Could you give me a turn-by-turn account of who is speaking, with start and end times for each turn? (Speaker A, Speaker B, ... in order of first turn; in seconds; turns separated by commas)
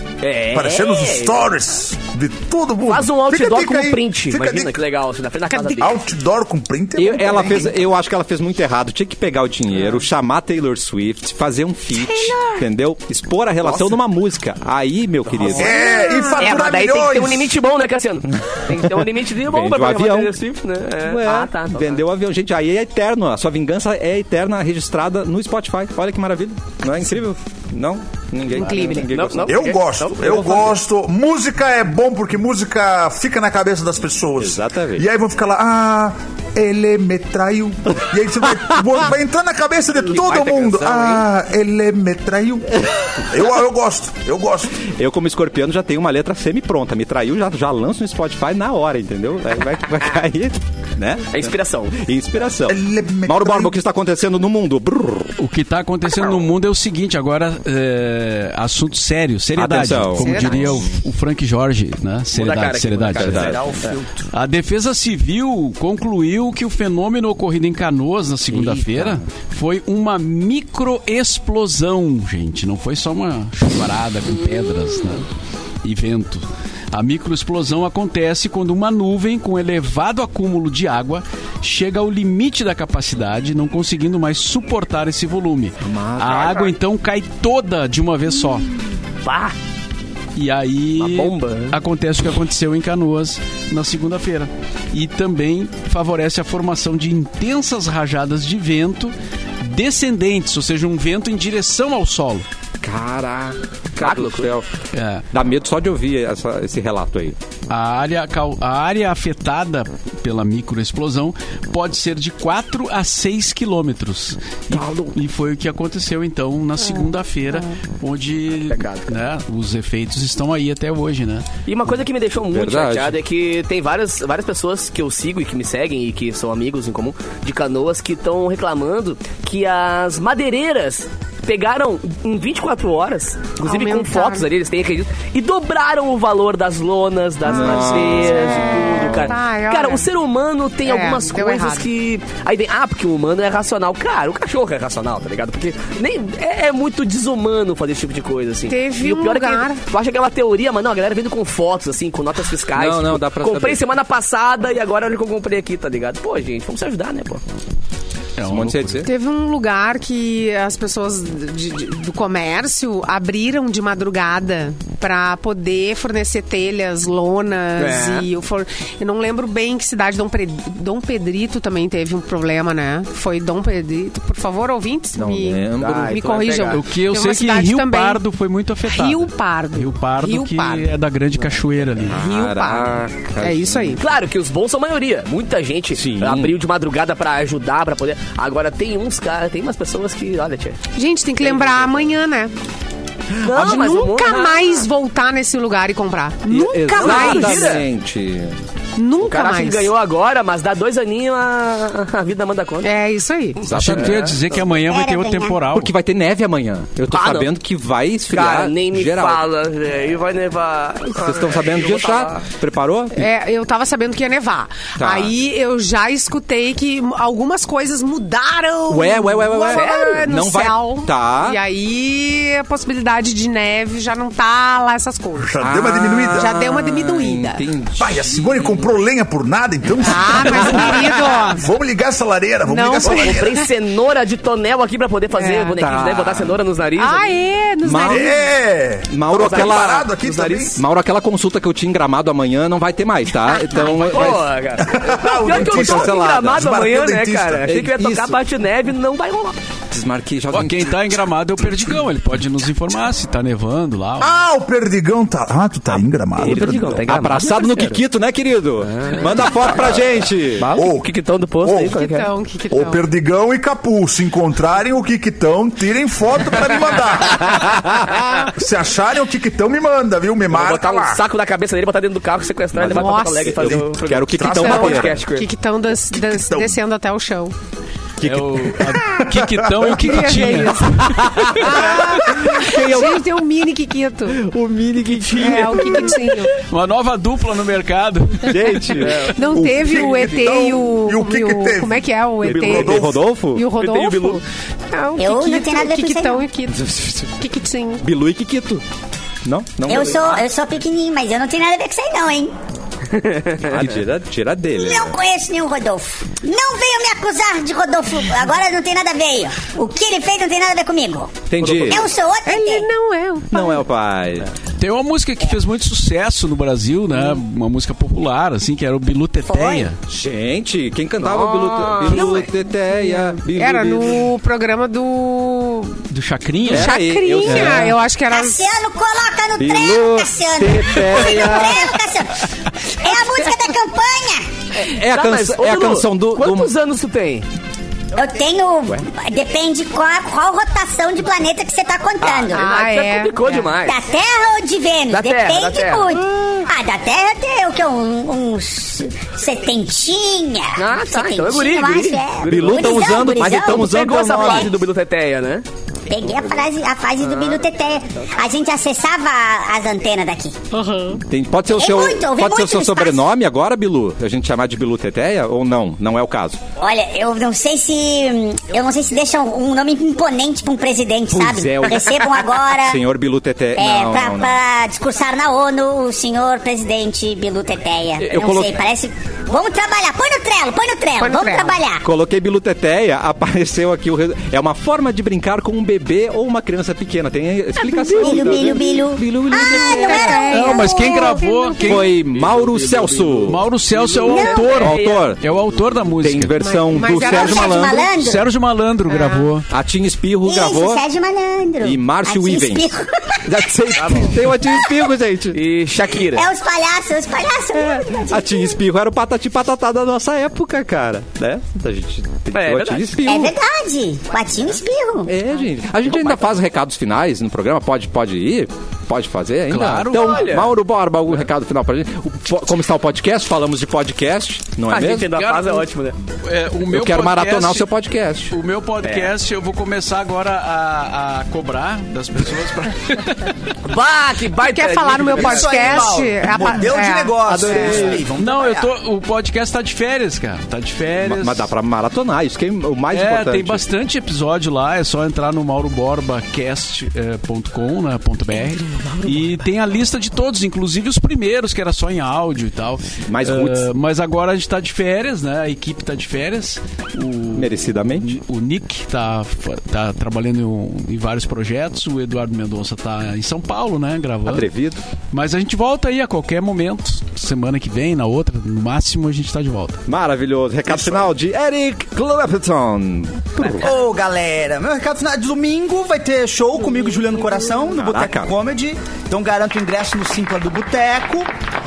Speaker A: 0.2-1.5, Speaker B: 0.5-4.7, Speaker A: 2.8-6.0, Speaker C: 5.5-5.9, Speaker B: 5.8-7.8, Speaker D: 7.0-15.8, Speaker C: 12.1-12.6, Speaker A: 13.6-14.0, Speaker A: 15.3-22.0, Speaker B: 15.4-17.5, Speaker C: 15.7-16.6, Speaker D: 19.4-20.3, Speaker D: 21.0-29.7, Speaker C: 28.6-29.1, Speaker A: 29.1-30.7, Speaker B: 29.5-44.8, Speaker D: 34.4-35.0, Speaker A: 40.0-41.2, Speaker D: 44.9-55.3, Speaker A: 51.3-52.0, Speaker B: 52.7-53.8, Speaker E: 55.4-63.5, Speaker D: 59.5-61.0, Speaker C: 60.2-60.6, Speaker A: 62.3-63.9, Speaker D: 63.1-63.6, Speaker F: 63.2-64.3, Speaker E: 64.3-75.3, Speaker D: 68.5-69.2, Speaker E: 75.8-88.7, Speaker D: 85.8-86.7, Speaker A: 89.2-89.5, Speaker E: 90.3-102.5, Speaker A: 91.0-91.8, Speaker D: 102.8-104.7, Speaker A: 104.0-104.5, Speaker E: 104.9-105.2, Speaker D: 105.3-107.4, Speaker E: 107.7-121.5, Speaker D: 114.7-115.2, Speaker A: 118.7-119.1, Speaker A: 121.7-157.4, Speaker D: 122.5-123.1, Speaker C: 133.6-134.4, Speaker D: 137.4-139.3, Speaker C: 138.1-140.1, Speaker C: 140.8-141.9, Speaker C: 148.7-149.8, Speaker D: 152.7-153.8, Speaker E: 158.4-159.0, Speaker D: 158.4-159.1, Speaker C: 159.0-178.2, Speaker A: 167.8-168.3, Speaker D: 175.2-176.8, Speaker A: 175.8-176.8, Speaker E: 176.7-182.2, Speaker C: 178.8-180.9, Speaker D: 182.0-184.0, Speaker C: 182.1-184.0, Speaker A: 184.0-190.8, Speaker D: 185.9-186.6, Speaker C: 190.9-192.5, Speaker A: 191.4-192.1, Speaker A: 193.4-194.9, Speaker C: 193.5-197.8, Speaker D: 196.5-198.6, Speaker A: 196.9-197.9, Speaker C: 199.0-199.9, Speaker A: 199.2-202.9, Speaker C: 202.8-203.6, Speaker D: 203.6-204.4, Speaker E: 203.7-205.9, Speaker A: 203.7-204.7, Speaker G: 204.8-205.6, Speaker D: 205.7-209.4, Speaker A: 207.1-207.5, Speaker A: 208.3-212.5, Speaker D: 211.2-213.2, Speaker C: 213.1-225.5, Speaker D: 215.0-215.3, Speaker D: 218.9-221.6, Speaker A: 219.7-220.3, Speaker B: 225.4-226.6, Speaker D: 225.6-228.9, Speaker C: 226.3-227.6, Speaker B: 228.0-233.6, Speaker C: 230.0-231.7, Speaker D: 230.4-231.1, Speaker C: 232.7-233.7, Speaker A: 233.0-237.3, Speaker C: 235.3-235.8, Speaker D: 235.8-236.6, Speaker C: 237.0-238.5, Speaker D: 237.8-238.3, Speaker B: 238.1-240.8, Speaker D: 239.1-240.1, Speaker A: 239.3-240.7, Speaker D: 240.7-244.6, Speaker C: 243.5-244.3, Speaker A: 243.8-249.6, Speaker B: 244.8-247.7, Speaker D: 245.5-246.7, Speaker D: 247.7-248.4, Speaker D: 249.9-251.2, Speaker E: 250.5-254.3, Speaker B: 254.2-257.0, Speaker A: 255.9-258.0, Speaker D: 256.4-260.7, Speaker A: 258.9-260.0, Speaker A: 260.6-262.3, Speaker B: 260.7-261.1, Speaker B: 261.6-262.0, Speaker C: 261.8-263.0, Speaker B: 262.7-271.2, Speaker D: 267.6-268.5, Speaker A: 270.5-275.5, Speaker D: 272.7-275.1, Speaker C: 272.8-273.6, Speaker B: 273.6-275.1, Speaker C: 274.6-277.5, Speaker B: 276.1-276.8, Speaker D: 278.2-278.7, Speaker E: 278.2-281.5, Speaker B: 279.0-279.9, Speaker C: 279.9-284.4, Speaker D: 281.0-283.3, Speaker D: 284.3-286.4, Speaker C: 285.1-286.6, Speaker E: 286.6-289.1, Speaker D: 288.4-290.3, Speaker A: 288.9-289.3, Speaker C: 289.2-296.8, Speaker B: 289.7-293.2, Speaker D: 292.4-293.6, Speaker A: 293.8-294.4, Speaker G: 295.2-296.4, Speaker D: 296.7-297.3, Speaker C: 297.4-298.1, Speaker D: 298.0-298.8, Speaker D: 299.4-300.4, Speaker G: 299.8-302.5, Speaker A: 303.1-303.9, Speaker D: 303.6-305.1, Speaker G: 304.7-312.9, Speaker D: 311.5-312.1, Speaker A: 311.6-312.1, Speaker C: 312.4-313.8, Speaker D: 313.5-314.5, Speaker E: 314.8-320.0, Speaker G: 319.4-319.9, Speaker D: 320.1-324.3, Speaker A: 321.2-322.5, Speaker C: 322.1-326.0, Speaker E: 326.1-326.9, Speaker D: 326.6-328.0, Speaker C: 326.7-328.6, Speaker G: 328.2-332.4, Speaker D: 329.6-331.9, Speaker G: 333.0-334.5, Speaker A: 334.7-337.4, Speaker D: 334.8-336.7, Speaker G: 338.1-342.6, Speaker A: 342.2-344.0, Speaker C: 342.5-343.7, Speaker G: 343.9-354.7, Speaker A: 345.1-346.1, Speaker A: 350.8-355.6, Speaker D: 352.4-354.7, Speaker G: 356.1-360.6, Speaker A: 357.2-357.6, Speaker C: 360.7-361.2, Speaker D: 361.2-366.6, Speaker G: 361.7-363.2, Speaker G: 366.8-373.0, Speaker D: 371.3-374.6, Speaker G: 373.8-382.1, Speaker D: 378.2-378.8, Speaker C: 381.2-381.8, Speaker D: 382.0-390.4, Speaker G: 388.0-391.4, Speaker C: 389.6-392.1, Speaker E: 390.4-392.2, Speaker D: 391.8-393.7, Speaker A: 392.4-395.3, Speaker E: 393.4-396.7, Speaker G: 394.2-394.7, Speaker D: 394.8-395.4, Speaker D: 396.1-398.0, Speaker C: 396.6-398.0, Speaker G: 397.2-398.5, Speaker E: 398.0-399.7, Speaker C: 399.1-399.5, Speaker D: 399.7-401.0, Speaker G: 400.4-403.6, Speaker D: 401.8-405.6, Speaker A: 404.0-404.4, Speaker G: 404.6-405.0, Speaker A: 405.5-406.5, Speaker G: 406.2-408.8, Speaker D: 407.8-413.6, Speaker A: 412.5-413.1, Speaker G: 413.2-415.3, Speaker D: 415.3-425.3, Speaker E: 419.7-420.7, Speaker A: 420.1-420.7, Speaker A: 424.9-426.2, Speaker E: 425.2-427.9, Speaker D: 426.9-428.5, Speaker E: 428.5-433.7, Speaker A: 429.0-429.3, Speaker A: 433.8-436.1, Speaker C: 434.6-438.2, Speaker F: 435.3-438.9, Speaker D: 437.5-438.2, Speaker E: 438.3-441.7, Speaker D: 441.2-443.8, Speaker E: 443.1-464.7, Speaker D: 453.3-453.9, Speaker D: 457.6-458.4, Speaker D: 464.4-465.0, Speaker E: 465.3-470.0, Speaker D: 470.1-473.9, Speaker B: 470.9-471.3, Speaker F: 473.8-481.5, Speaker D: 478.0-478.5